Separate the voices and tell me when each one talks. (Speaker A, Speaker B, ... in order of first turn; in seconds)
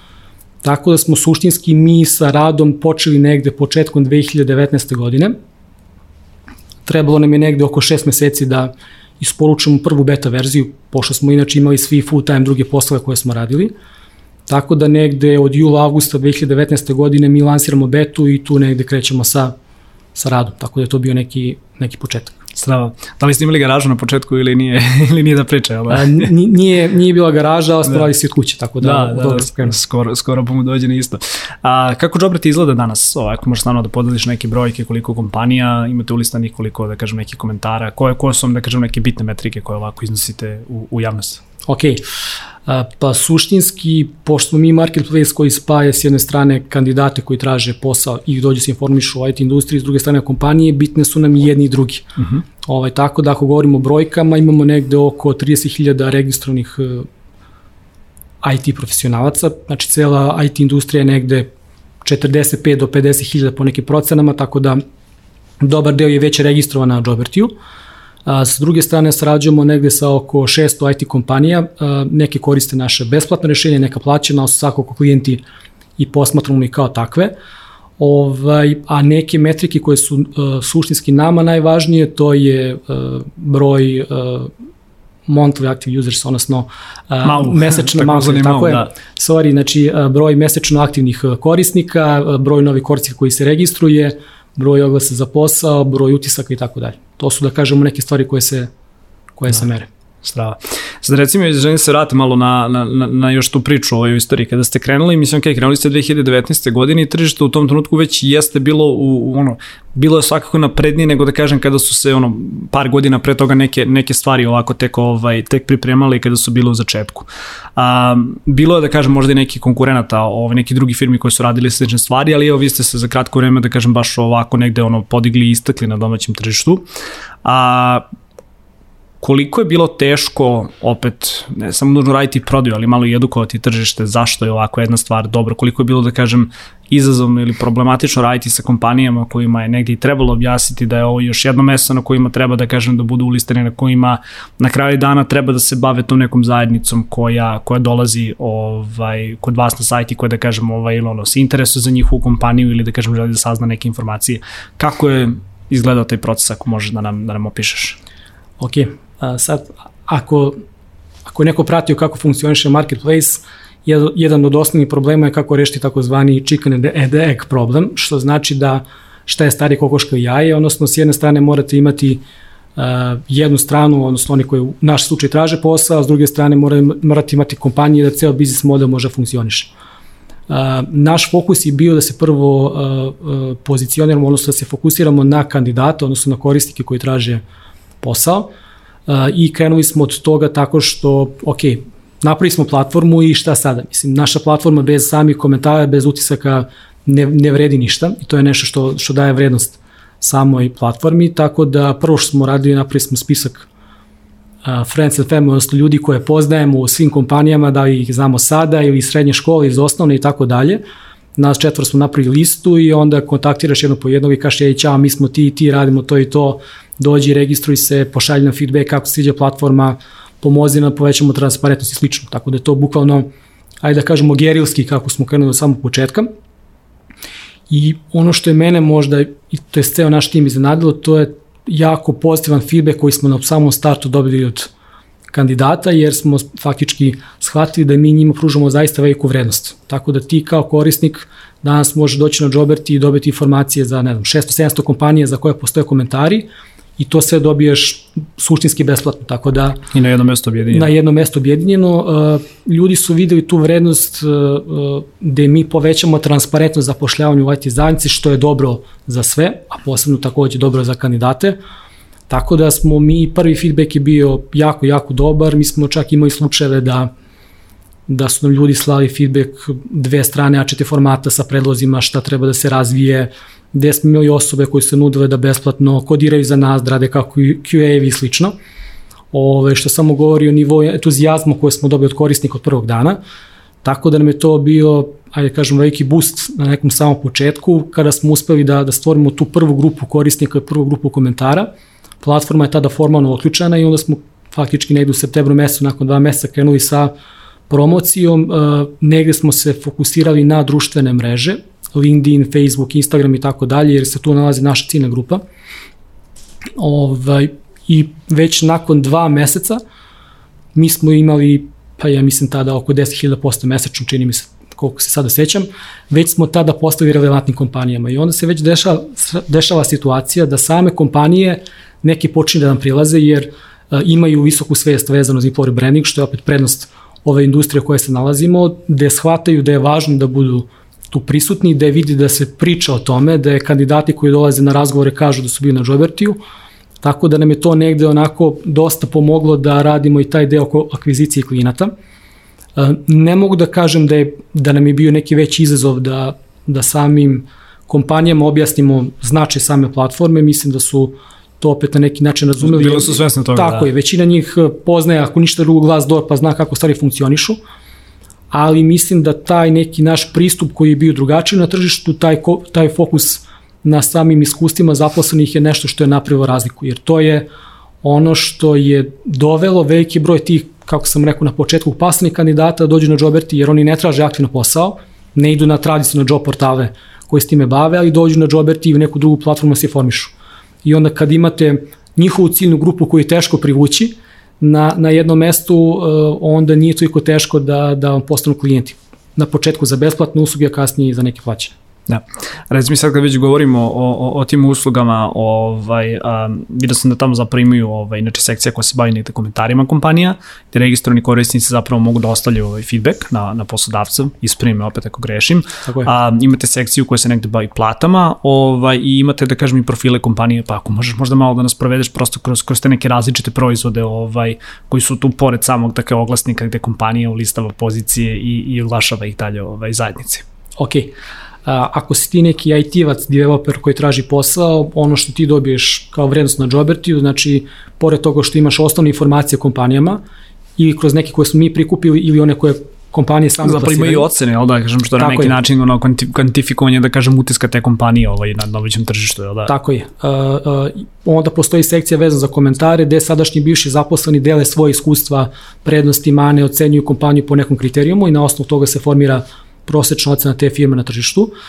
Speaker A: 0.6-5.3, 6.8-13.7, 14.5-19.5, 20.1-22.4, 25.9-29.8, 41.6-42.0, 42.7-57.1, 58.4-61.5, 62.0-64.8, 65.6-67.5, 68.2-75.4, 76.0-77.3, 78.0-84.5, 85.3-98.7, 99.4-99.9, 158.6-160.6, 161.3-172.2, 172.8-179.7, 180.5-187.4, 188.0-188.5, 189.1-203.7, 204.6-210.8, 211.4-223.3, 223.8-226.3, 227.7-234.7, 235.3-246.5, 247.0-249.8, 250.7-261.6, 262.3-267.1, 268.1-278.5, 279.3-283.2, 283.8-291.7, 292.2-297.1, 297.7-305.4, 306.8-309.8, 310.7-336.4, 337.0-341.9, 342.8-357.6, 358.5-367.5, 368.0-380.3, 380.8-391.7, 420.8-421.1, 421.6-430.2, 430.8-434.3, 435.2-435.6, 439.7-451.5
Speaker B: 22.5-26.3, 28.8-41.4, 87.2-88.9, 100.2-126.8, 127.4-128.1, 129.2-158.0, 249.9-250.9, 352.6-353.9, 392.1-420.4, 433.6-439.7